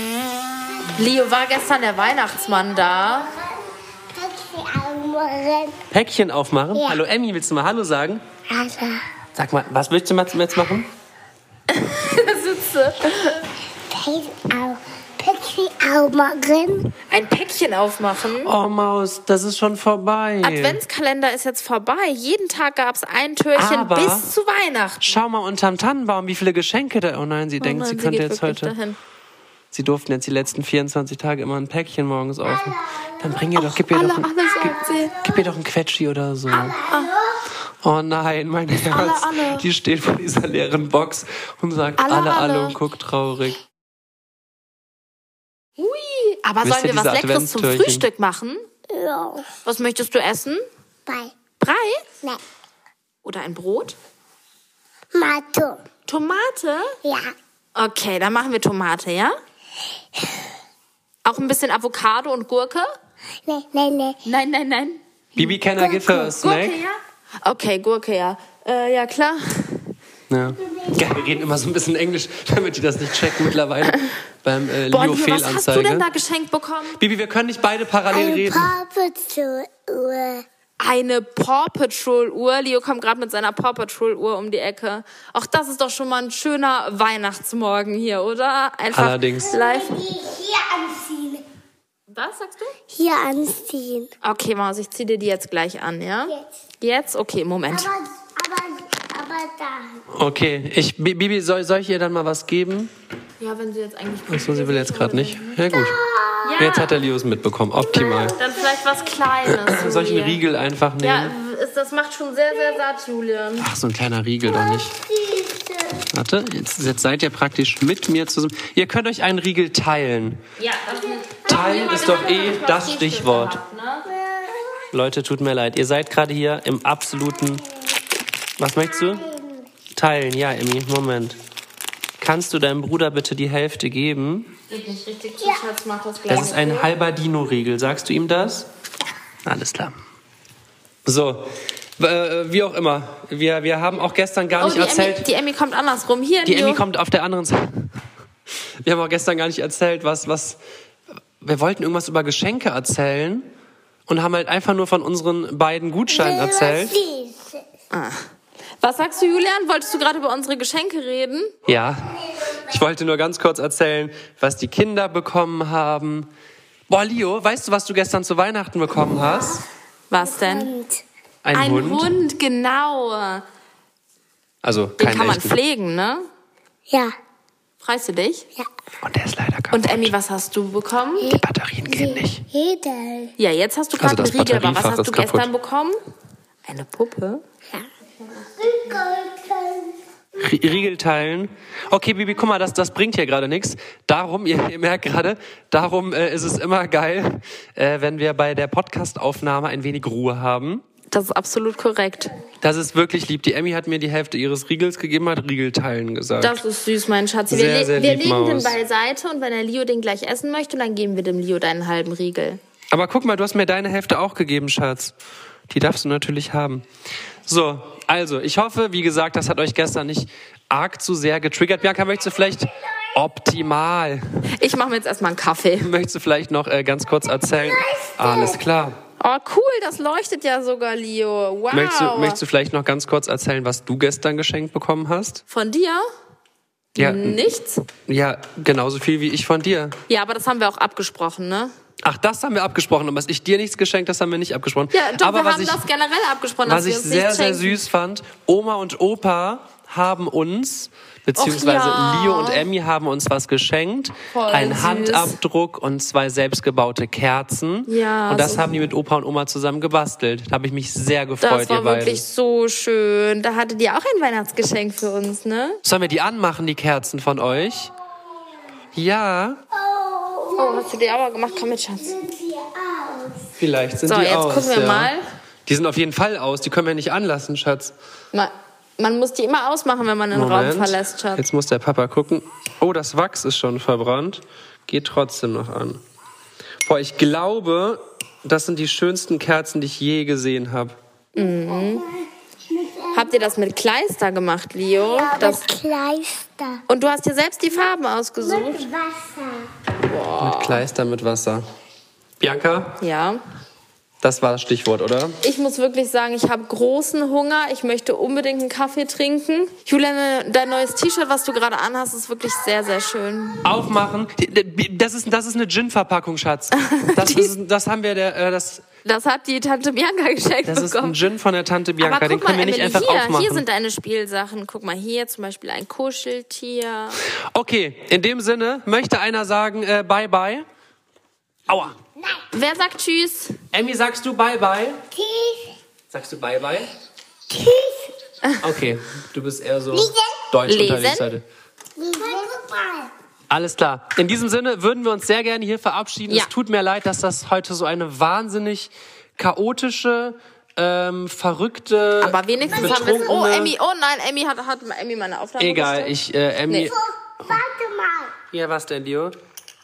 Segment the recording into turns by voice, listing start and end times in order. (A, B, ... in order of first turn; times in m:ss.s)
0:01.0-0:03.3 A
0:04.1-0:05.8 B
0:05.9-0:08.2 C
0:08.5-0:09.0 B
0:09.4-0:10.9 C
0:11.7-0:13.5 A
0:13.9-0:16.9 B
0:17.1-0:18.5 A
0:18.4-0:20.8 C
0:20.4-0:25.2 A
0:23.6-0:24.3 C
0:25.0-0:28.7 C
0:27.6-0:29.0 A
0:29.7-0:36.8 C
0:33.6-0:35.3 A
0:36.5-0:37.4 B
0:36.9-0:37.2 A
0:37.8-0:43.6 C
0:38.9-0:39.7 A
0:42.0-0:42.8 A
0:45.8-0:48.7 A
0:46.6-0:48.1 C
0:48.9-0:49.5 B
0:49.6-0:50.6 A
0:51.1-0:51.3 B
0:51.6-0:52.0 A
0:53.2-0:54.0 A
0:55.1-0:55.8 B
0:56.1-0:57.0 A
0:57.0-0:57.3 B
0:57.8-0:59.4 A
1:01.2-1:02.9 A
1:03.5-1:04.2 B
1:04.2-1:10.0 A
1:05.4-1:06.8 C
1:10.3-1:16.1 C
1:14.9-1:17.0 A
1:16.9-1:18.8 C
1:18.1-1:20.5 B
1:20.8-1:30.0 A
1:28.9-1:29.6 C
1:29.5-1:31.4 B
1:32.1-1:32.8 A
1:32.9-1:34.1 B
1:34.2-1:37.9 A
1:37.7-1:40.0 B
1:40.1-1:42.9 C
1:43.4-1:45.6 A
1:44.3-1:46.0 C
1:45.7-1:46.7 B
1:46.4-1:47.0 A
1:46.6-1:48.4 C
1:47.9-1:48.9 B
1:48.4-1:50.4 A
1:49.4-1:51.4 C
1:51.0-1:53.7 A
1:53.6-1:55.0 C
1:54.6-1:56.0 B
1:56.0-2:00.4 C
2:00.6-2:04.1 A
2:01.4-2:03.6 C
2:04.2-2:04.6 B
2:04.9-2:07.6 C
2:08.6-2:09.3 C
2:09.2-2:09.6 B
2:09.9-2:11.4 C
2:12.2-2:14.6 C
2:14.7-2:16.9 A
2:16.3-2:18.7 C
2:19.4-2:20.0 C
2:21.0-2:25.3 C
2:24.6-2:26.8 A
2:26.5-2:27.9 C
2:28.8-2:30.6 C
2:31.4-2:33.5 C
2:34.1-2:37.0 C
2:36.1-2:37.6 B
2:37.9-2:38.3 A
2:38.8-2:41.5 A
2:41.7-2:46.3 C
2:46.9-2:49.6 C
2:50.1-2:50.7 A
2:50.2-2:51.0 B
2:51.4-2:52.1 C
2:51.5-2:53.4 A
2:54.6-2:55.6 C
2:55.0-2:56.3 A
2:57.8-2:58.5 A
2:59.0-3:00.1 C
2:59.7-3:01.4 A
3:01.2-3:02.5 C
3:01.9-3:03.3 B
3:03.4-3:06.0 A
3:04.0-3:05.5 C
3:06.7-3:07.4 A
3:08.6-3:10.0 B
3:10.4-3:20.8 C
3:21.1-3:22.4 A
3:22.6-3:26.6 C
3:26.4-3:32.6 A
3:27.5-3:28.8 C
3:32.9-3:35.2 C
3:35.7-3:36.8 C
3:37.4-3:44.5 C
3:44.6-3:45.9 A
3:45.8-3:49.0 C
3:47.8-3:48.6 B
3:49.2-3:52.4 A
3:51.7-3:55.4 C
3:55.5-3:56.1 A
3:57.0-3:57.4 C
3:57.0-3:57.8 A
3:58.1-4:00.0 C
4:00.1-4:01.7 A
4:02.0-4:05.8 C
4:04.9-4:07.8 A
4:06.7-4:22.2 C
4:11.4-4:12.7 A
4:14.3-4:15.4 A
4:17.9-4:18.7 A
4:21.4-4:25.8 A
4:25.8-4:27.9 C
4:28.9-4:29.6 C
4:29.7-4:33.5 B
4:30.6-4:32.2 A
4:33.6-4:35.2 C
4:34.1-4:35.2 A
4:35.7-4:38.0 C
4:38.3-4:41.4 A
4:40.3-4:46.0 C
4:46.8-4:51.0 C
4:51.4-4:52.1 A
4:52.7-4:53.6 B
4:53.1-4:55.8 A
4:55.0-4:56.8 B
4:56.9-4:58.9 A
4:58.4-4:59.7 B
5:00.0-5:00.8 A
5:00.4-5:01.6 C
5:02.4-5:03.0 C
5:03.0-5:03.4 A
5:04.2-5:05.4 C
5:05.4-5:13.8 A
5:13.6-5:18.8 C
5:16.8-5:17.5 A
5:19.0-5:21.2 A
5:20.6-5:23.6 C
5:22.0-5:27.2 A
5:27.3-5:30.7 C
5:31.7-5:32.0 C
5:32.5-5:33.6 A
5:33.7-5:35.0 C
5:35.2-5:35.7 B
5:36.1-5:36.9 C
5:37.5-5:37.9 B
5:38.6-5:41.4 C
5:39.9-5:40.3 B
5:40.7-5:41.3 A
5:42.0-5:43.1 B
5:43.5-5:53.7 C
5:52.2-5:56.2 A
5:52.8-5:53.2 B
5:55.6-5:57.6 C
5:56.7-5:56.9 A
5:57.4-5:58.4 B
5:58.5-5:59.4 C